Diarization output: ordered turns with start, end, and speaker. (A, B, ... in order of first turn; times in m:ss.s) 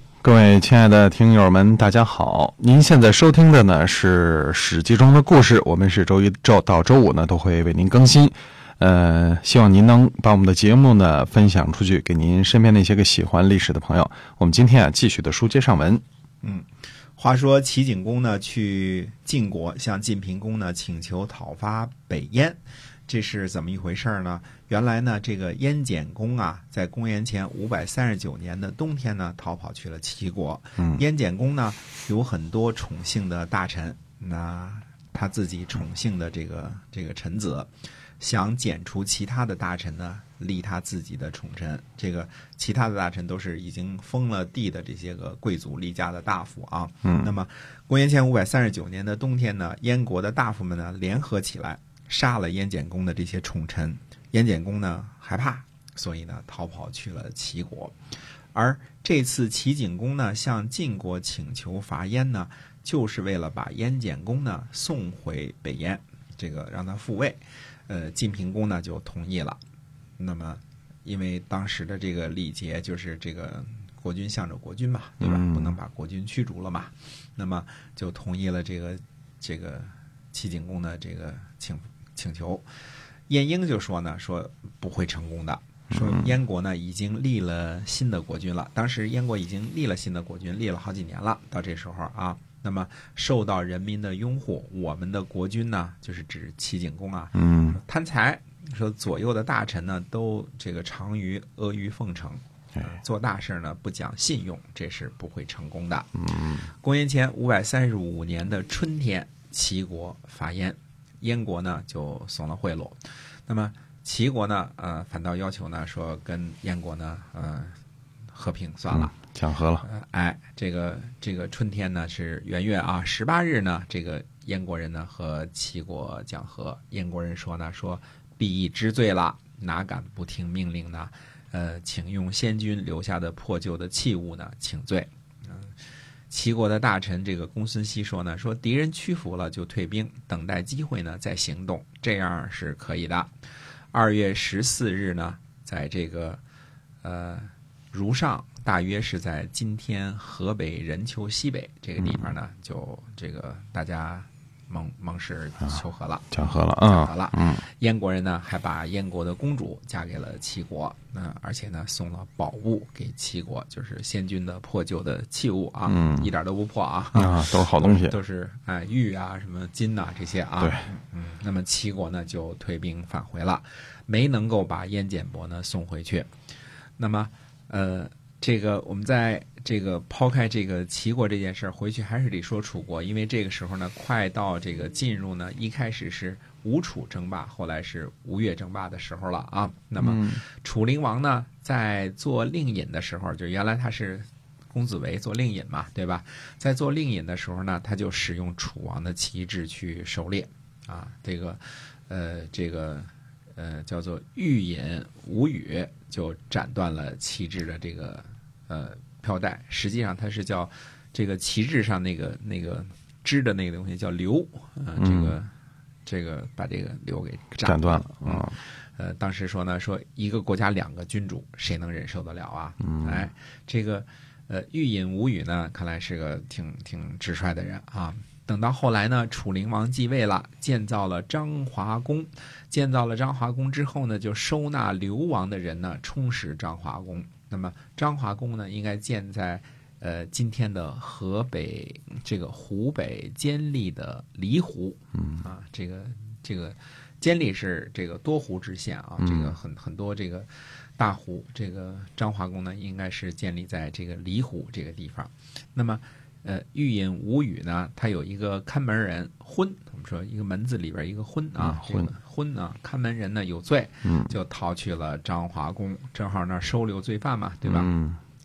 0:00.2-0:16.0 A
0:17.2-0:57.9 B
0:47.0-0:47.3 A
0:58.5-1:09.6 B
1:10.2-1:22.6 B
1:15.2-1:15.7 A
1:23.3-1:57.7 B
1:37.3-1:37.8 A
1:46.2-1:46.6 A
1:58.3-1:59.2 B
1:58.9-1:59.8 A
1:59.8-2:15.7 B
2:16.3-2:23.3 B
2:23.9-2:26.4 B
2:27.0-2:56.3 B
2:36.3-2:37.6 A
2:45.9-2:46.3 A
2:47.1-2:48.2 A
2:50.6-2:50.8 A
2:57.0-3:35.5 B
3:10.0-3:10.4 A
3:35.0-3:35.4 A
3:36.0-4:27.9 B
3:37.6-3:38.6 A
3:42.9-3:43.2 A
4:09.2-4:09.5 A
4:21.6-4:22.1 A
4:24.0-4:24.3 A
4:27.6-4:28.2 A